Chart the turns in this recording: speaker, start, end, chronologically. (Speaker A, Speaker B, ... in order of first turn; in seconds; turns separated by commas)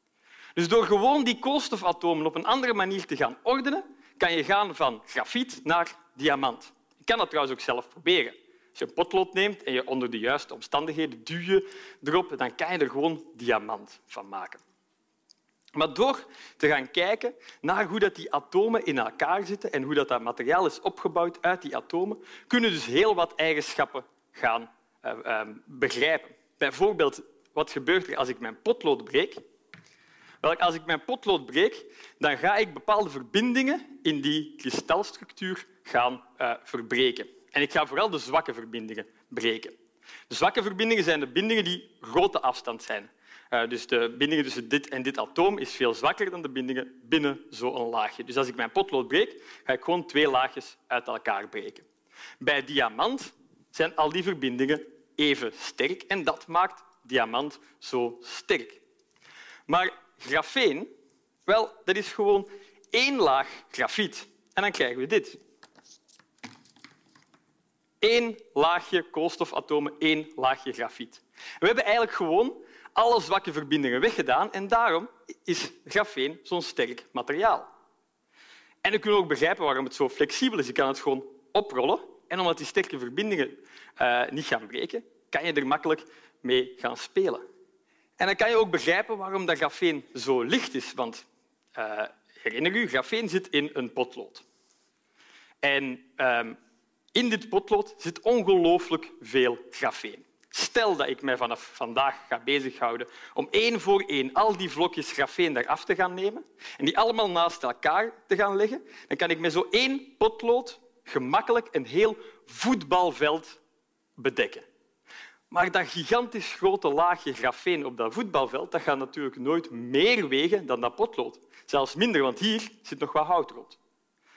Speaker A: 0.6-14.6, Speaker A: 15.8-29.4, Speaker A: 30.4-39.8, Speaker A: 40.3-51.9, Speaker A: 52.4-58.8, Speaker A: 59.7-60.9, Speaker A: 61.5-65.4, Speaker A: 68.0-77.7, Speaker A: 78.8-87.4, Speaker A: 88.2-94.5, Speaker A: 95.6-96.6, Speaker A: 97.1-113.6, Speaker A: 114.2-114.7, Speaker A: 115.5-123.8